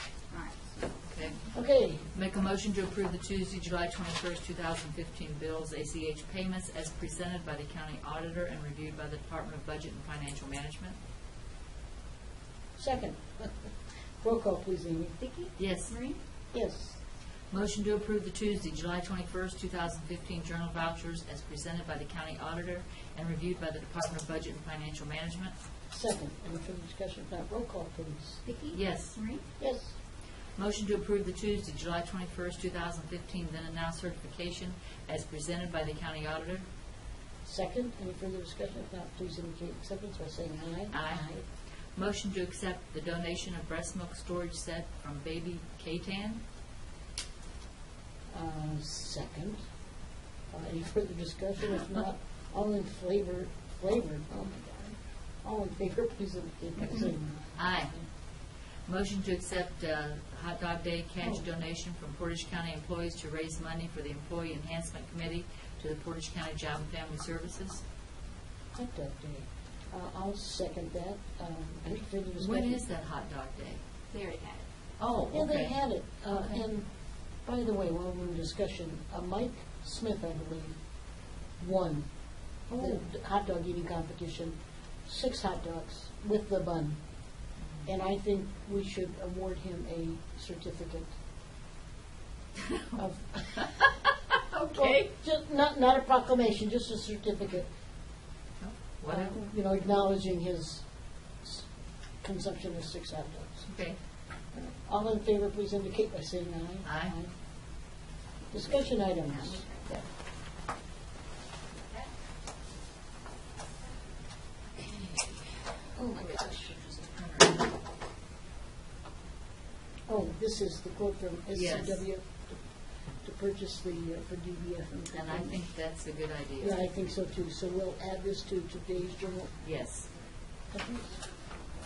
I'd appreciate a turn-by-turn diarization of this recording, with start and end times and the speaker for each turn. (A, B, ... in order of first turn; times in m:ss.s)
0:00.3-0:01.3 A
0:01.0-0:11.0 B
0:01.5-0:02.1 C
0:12.8-0:15.2 C
0:15.2-0:16.2 A
0:15.6-0:16.1 B
0:16.5-0:17.0 C
0:17.5-0:25.6 B
0:25.9-0:28.4 C
0:28.4-0:29.4 A
0:28.7-0:29.3 B
0:29.6-0:30.0 C
0:30.5-0:36.7 B
0:37.4-0:41.4 C
0:40.9-0:46.4 B
0:48.3-0:49.8 C
0:50.5-0:58.1 C
0:57.5-0:58.2 B
0:58.8-1:07.8 B
1:08.7-1:12.8 C
1:12.4-1:13.8 B
1:14.1-1:14.7 A
1:15.0-1:16.1 B
1:15.3-1:31.2 C
1:22.7-1:23.0 A
1:27.6-1:27.9 B
1:32.9-1:33.9 C
1:34.6-1:35.0 B
1:34.7-1:37.7 C
1:38.6-1:39.4 B
1:39.1-1:47.4 C
1:43.7-1:44.0 B
1:46.8-1:47.2 B
1:48.5-1:49.7 C
1:49.3-1:49.9 A
1:56.0-1:56.8 C
1:56.9-1:57.5 B
2:00.1-2:05.7 C
2:01.5-2:02.1 B
2:05.1-2:06.9 B
2:06.6-2:09.6 C
2:09.6-2:10.1 B
2:10.7-2:11.5 C